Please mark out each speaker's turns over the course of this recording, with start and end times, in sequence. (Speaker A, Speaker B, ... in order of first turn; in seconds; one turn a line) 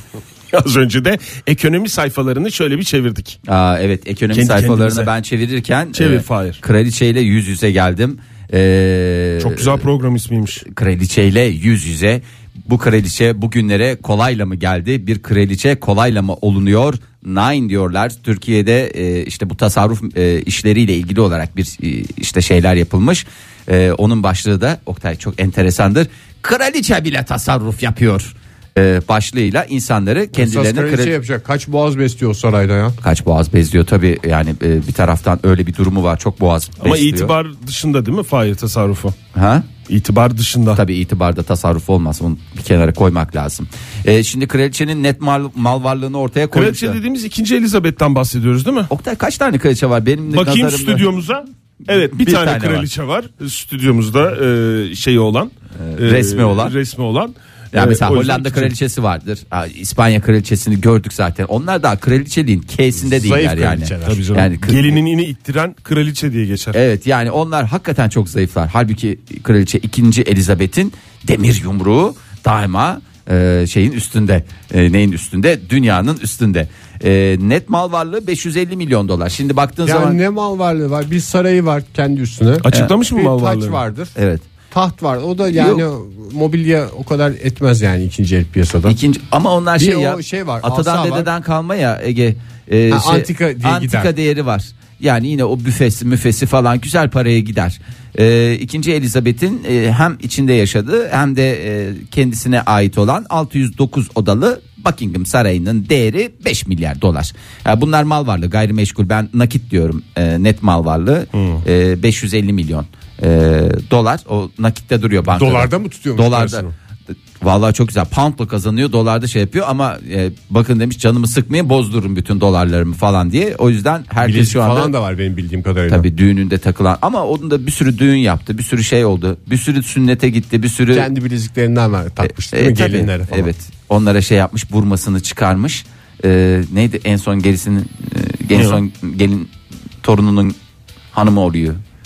Speaker A: 0.5-3.4
Speaker B: 3.5-9.8
Speaker A: 4.3-5.1
Speaker A: 5.9-6.6
Speaker A: 9.4-10.6
Speaker B: 10.7-31.1
Speaker C: 30.3-33.0
Speaker B: 33.0-37.3
Speaker A: 36.8-39.1
Speaker B: 39.3-39.7
Speaker A: 39.9-40.8
Speaker B: 40.7-47.0
Speaker A: 46.5-48.9
Speaker B: 48.9-51.1
Speaker A: 50.3-58.7
Speaker B: 52.1-52.9
Speaker B: 55.8-56.7
Speaker B: 57.7-65.0
Speaker C: 63.0-64.2
Speaker A: 64.0-66.8
Speaker B: 66.7-80.2
Speaker C: 79.8-84.1
Speaker A: 82.6-83.8
Speaker B: 84.2-84.5
Speaker C: 84.7-89.0
Speaker B: 85.5-85.8
Speaker B: 88.8-116.6
Speaker C: 89.8-91.3
Speaker C: 92.9-94.1
Speaker C: 115.3-116.7
Speaker B: 117.4-124.9
Speaker C: 124.2-126.1
Speaker B: 125.9-131.1
Speaker C: 130.9-133.5
Speaker B: 132.2-139.5
Speaker A: 138.5-138.8
Speaker B: 140.0-140.6
Speaker B: 141.1-141.8